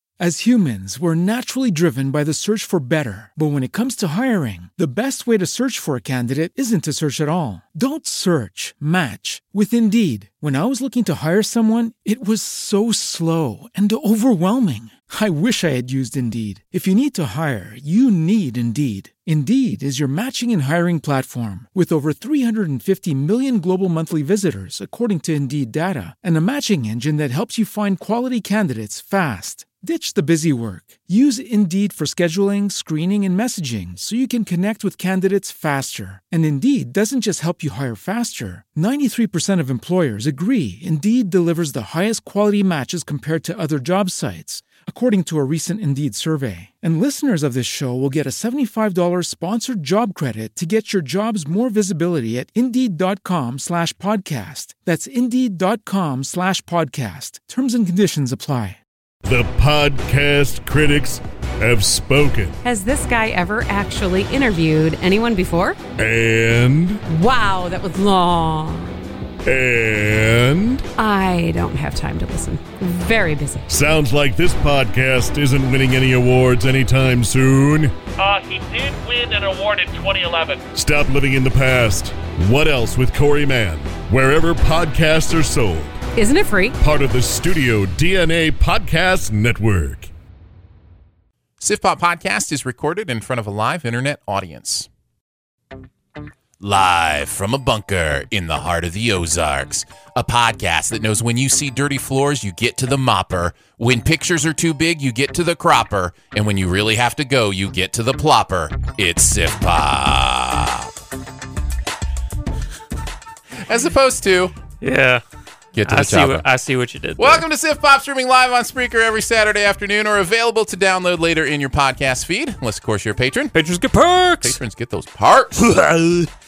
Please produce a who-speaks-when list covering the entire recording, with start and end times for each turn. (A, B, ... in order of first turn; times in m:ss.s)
0:00.2-0:58.8 A
0:59.2-1:02.6 B
1:02.6-1:05.8 C
1:06.0-1:07.0 B
1:07.1-1:09.0 C
1:09.4-1:10.9 B
1:11.0-1:13.7 C
1:13.7-1:26.0 B
1:26.2-1:26.8 C
1:26.8-1:30.1 B
1:31.6-1:34.9 D
1:36.6-1:50.9 D
1:53.6-1:54.5 D
1:54.8-1:55.2 E
1:55.7-1:56.4 D
1:55.9-1:57.4 E
1:57.2-2:03.6 D
2:03.6-2:04.6 E
2:04.4-2:05.7 D
2:05.6-2:06.3 E